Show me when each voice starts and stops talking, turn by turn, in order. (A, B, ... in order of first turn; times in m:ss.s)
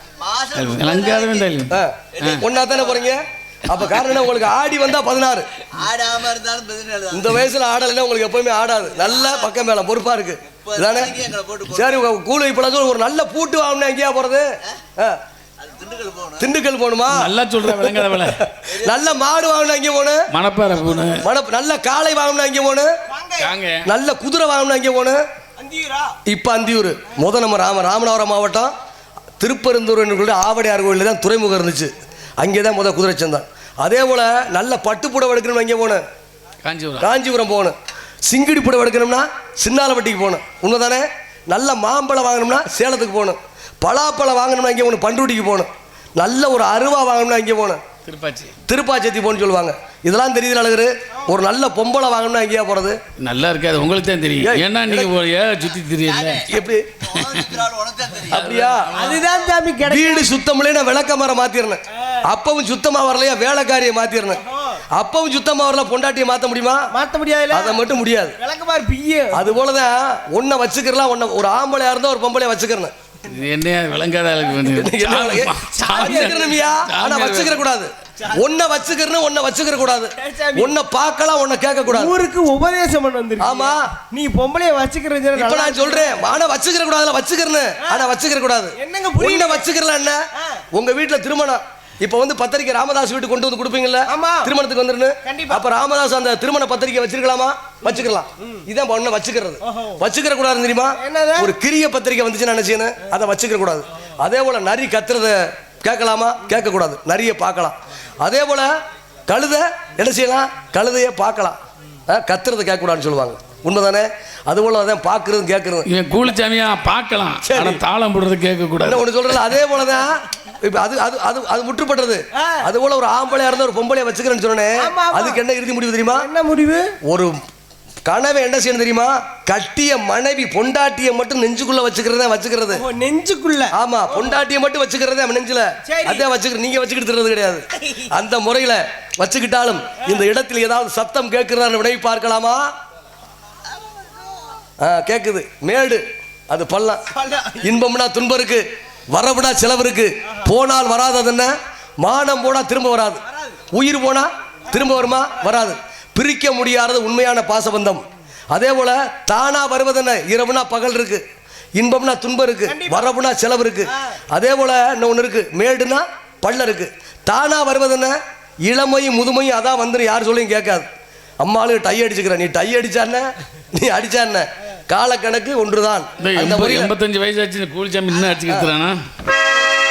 0:00.2-0:01.2 A
0:00.5-0:02.4 B
0:01.7-0:05.5 C
0:05.7-0:07.1 A
0:07.1-0:14.4 C
0:11.2-0:11.6 A
0:15.6-0:16.4 A
0:16.4-0:20.3 C
0:17.1-0:18.4 B
0:20.3-0:21.2 B
0:21.1-0:22.9 C
0:23.1-0:23.5 D
0:23.4-0:23.8 B
0:23.8-0:25.2 C
0:25.6-0:26.2 D
0:26.2-0:28.7 C
0:29.4-0:36.0 C
0:36.6-0:37.1 B
0:37.0-0:37.8 C
0:38.3-0:47.8 C
0:48.0-0:48.5 B
0:48.7-0:53.0 C
0:53.2-0:56.5 B
0:54.4-0:55.1 C
0:56.4-0:56.9 C
0:57.1-0:57.7 B
0:57.4-0:58.2 A
0:58.2-0:58.9 C
0:58.9-1:00.3 D
0:59.9-1:06.9 C
1:06.9-1:07.8 D
1:07.5-1:08.4 C
1:08.4-1:09.5 D
1:09.3-1:12.9 C
1:13.3-1:17.6 B
1:14.6-1:22.2 C
1:15.7-1:16.5 D
1:20.2-1:20.7 D
1:21.9-1:26.4 D
1:23.4-1:23.9 C
1:25.3-1:30.2 C
1:28.8-1:29.7 D
1:30.4-1:30.6 D
1:30.7-1:48.7 C
1:34.1-1:34.5 D
1:35.2-1:35.6 D
1:37.9-1:38.6 D
1:39.7-1:40.0 D
1:41.0-1:41.5 D
1:49.3-1:51.6 C
1:52.1-1:55.9 C
1:55.9-1:59.0 B
1:57.5-1:57.8 C
1:58.8-2:06.3 C
2:02.4-2:02.6 D
2:04.8-2:05.4 D
2:06.1-2:06.9 D
2:07.1-2:07.4 C
2:08.0-2:12.8 C
2:12.7-2:14.4 D
2:13.7-2:22.7 C
2:15.9-2:16.2 D
2:24.8-2:41.2 C
2:27.3-2:27.5 D
2:41.8-2:50.9 C
2:42.7-2:43.0 D
2:51.4-2:56.9 C
2:56.2-2:59.0 B